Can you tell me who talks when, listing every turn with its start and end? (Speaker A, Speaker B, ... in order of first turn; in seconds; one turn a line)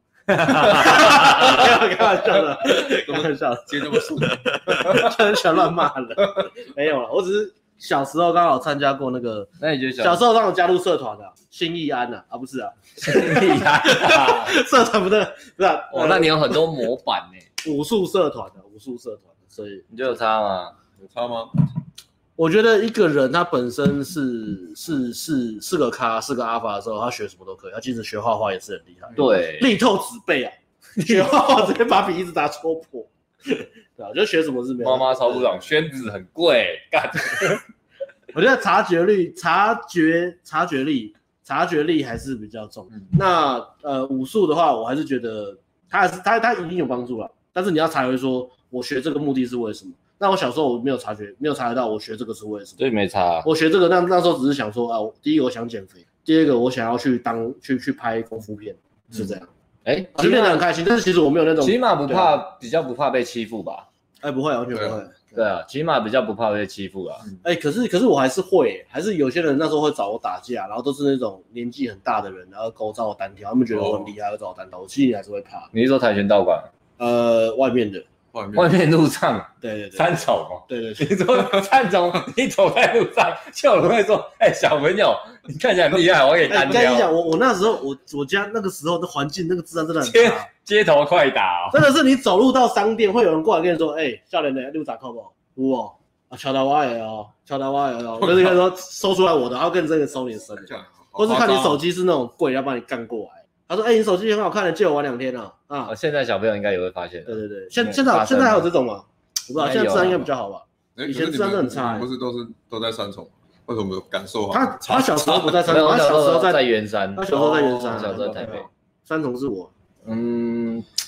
Speaker A: 0.3-1.7
Speaker B: 0.4-16.6
Speaker C: 2.7-5.2
Speaker A: 9.6-10.2
Speaker A: 13.0-14.6
Speaker A: 15.9-17.4
Speaker B: 17.6-19.9
Speaker A: 19.9-20.7
Speaker C: 21.0-21.5
Speaker B: 22.4-35.7
Speaker A: 29.2-29.7
Speaker A: 31.0-31.3
Speaker A: 34.8-37.6
Speaker B: 38.3-52.8
Speaker A: 52.8-53.5
Speaker B: 53.5-59.5
Speaker A: 59.8-60.6
Speaker B: 60.2-62.4
Speaker A: 61.6-63.9
Speaker B: 64.2-65.5
Speaker C: 64.7-65.0
Speaker A: 65.4-67.3
Speaker B: 67.4-75.7
Speaker C: 73.7-74.1
Speaker A: 75.7-76.7
Speaker B: 77.0-78.0
Speaker C: 78.3-78.7
Speaker A: 78.5-87.1
Speaker B: 79.6-80.1
Speaker B: 80.7-81.3
Speaker B: 86.5-90.5
Speaker A: 90.0-91.8
Speaker B: 91.7-105.9
Speaker C: 100.6-101.8
Speaker A: 105.9-108.7
Speaker B: 107.3-112.1
Speaker A: 109.6-110.3
Speaker C: 111.0-115.7
Speaker B: 114.5-116.6
Speaker A: 115.7-118.7
Speaker B: 117.2-119.7
Speaker C: 117.3-118.1
Speaker A: 120.0-120.9